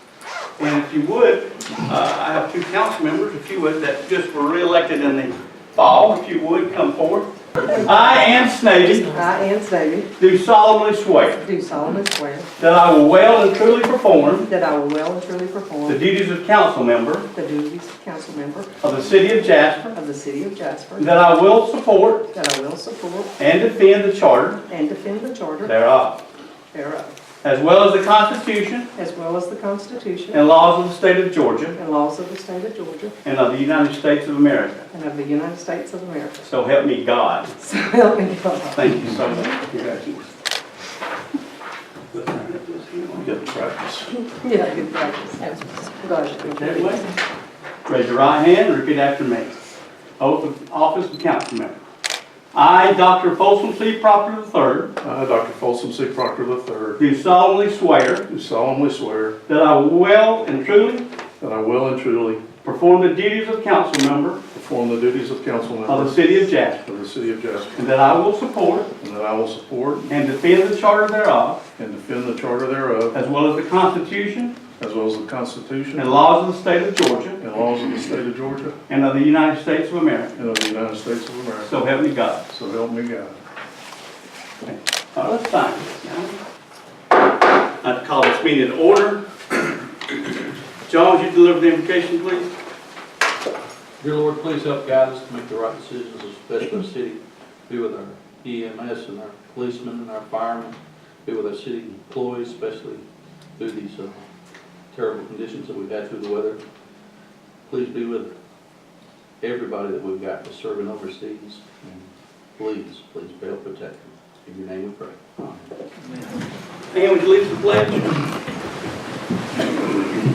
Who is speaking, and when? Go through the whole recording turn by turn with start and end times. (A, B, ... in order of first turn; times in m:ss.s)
0:00.6-0:09.2 A
0:07.7-0:10.1 B
0:10.2-0:11.4 A
0:11.4-0:12.5 B
0:12.6-0:14.5 A
0:14.2-0:16.0 B
0:15.9-0:17.3 A
0:17.3-0:18.8 B
0:18.8-0:19.8 A
0:19.8-0:21.1 B
0:21.0-0:22.3 A
0:22.3-0:23.4 B
0:23.4-0:24.6 A
0:24.7-0:25.7 B
0:25.6-0:26.2 A
0:26.7-0:27.1 B
0:27.4-0:28.9 A
0:29.0-0:30.4 B
0:30.3-0:31.8 A
0:31.8-0:33.1 B
0:33.2-0:34.9 A
0:34.9-0:36.5 B
0:36.4-0:37.5 A
0:37.6-0:39.2 B
0:38.7-0:40.2 A
0:42.1-0:43.3 A
0:43.2-0:44.1 C
0:44.4-0:47.2 B
0:46.5-0:47.0 A
0:47.9-0:49.6 A
0:50.2-0:51.8 A
0:52.5-0:55.0 A
0:55.0-0:57.0 C
0:57.0-0:58.3 A
0:58.3-0:59.4 C
0:59.5-1:01.0 A
1:01.4-1:02.4 C
1:02.6-1:04.4 A
1:04.5-1:07.8 C
1:05.9-1:06.8 A
1:07.8-1:08.9 A
1:09.0-1:10.1 C
1:10.1-1:11.6 A
1:11.8-1:13.2 C
1:13.1-1:14.6 A
1:14.8-1:16.1 C
1:16.0-1:17.4 A
1:17.4-1:18.8 C
1:18.9-1:20.3 A
1:20.4-1:21.7 C
1:21.6-1:22.4 A
1:22.5-1:23.4 C
1:24.7-1:26.4 A
1:27.8-1:29.2 A
1:30.9-1:32.5 A
1:34.0-1:43.0 D
1:43.6-1:44.2 D
1:44.9-1:46.6 D
1:47.6-1:48.3 D
1:49.4-1:51.6 D
1:52.6-1:55.2 D
1:56.9-1:58.1 A